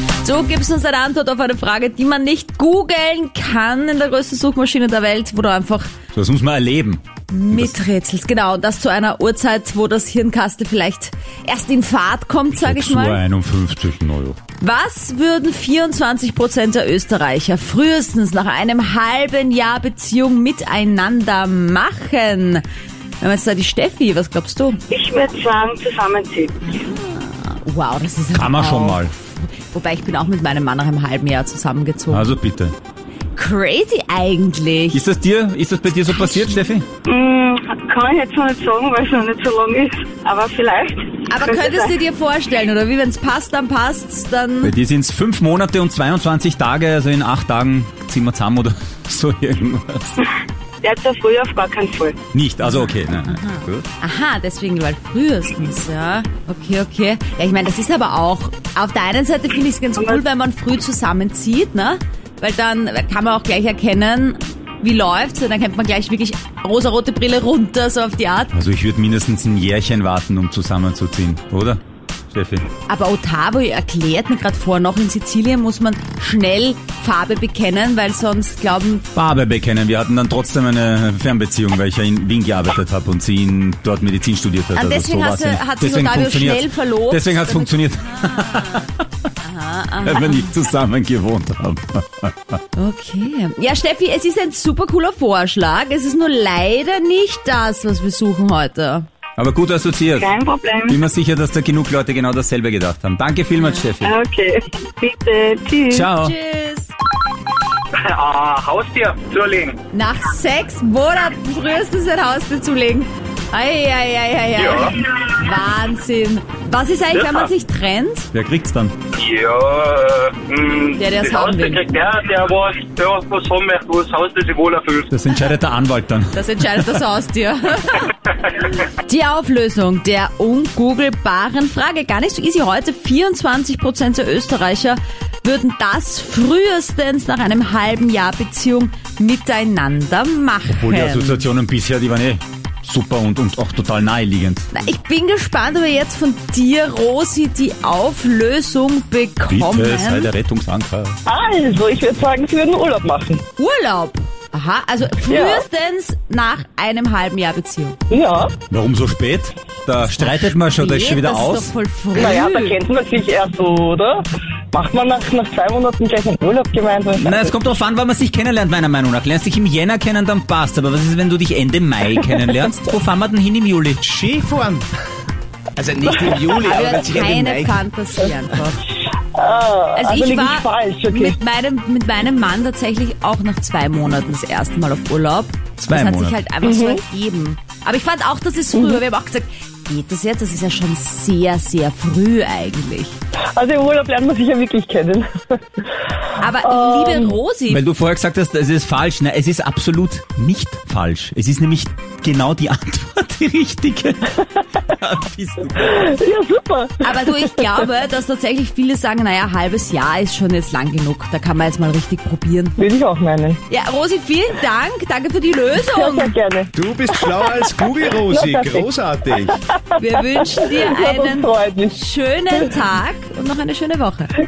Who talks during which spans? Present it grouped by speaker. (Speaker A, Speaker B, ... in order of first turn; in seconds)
Speaker A: 0.2-5.9, 7.3-13.2, 14.6-22.6, 23.2-24.8, 26.6-32.3, 33.4-35.0, 36.1-36.5, 41.3-44.7, 52.6-68.5, 72.9-79.0, 84.7-90.5, 92.8-99.0, 103.6-103.8, 106.2-106.9, 109.9-118.3, 121.0-121.8, 126.3-141.5, 144.7-150.3, 153.6-158.0, 160.0-162.8, 176.6-178.8, 179.9-193.2, 196.4-197.8, 207.0-212.8, 213.7-216.3, 220.0-224.3
Speaker B: 6.1-7.8, 12.5-14.4, 28.3-29.1, 32.1-32.8, 34.9-36.8, 44.6-50.2, 52.3-53.9, 68.5-72.7, 79.1-89.0, 90.0-92.6, 99.4-100.3, 100.9-104.1, 105.9-106.3, 118.3-118.9, 125.1-127.0, 140.7-144.7, 149.5-151.2, 158.7-161.7, 167.2-174.0, 185.8-186.4, 197.7-206.1
Speaker C: 24.9-26.8, 37.0-41.9, 50.8-52.2, 60.0-60.2, 100.2-101.0, 104.0-106.1
Speaker D: 108.0-109.8, 114.6-115.0, 117.1-117.5, 119.1-125.1
Speaker E: 151.2-153.4, 155.3-155.6, 158.1-158.5, 162.1-167.5, 176.1-176.6, 179.2-181.4, 186.6-187.0, 193.5-195.8, 196.6-197.4, 205.8-207.5, 212.8-213.6, 215.9-216.7, 217.4-222.0
Speaker F: 174.0-174.8, 175.8-177.8, 216.7-219.6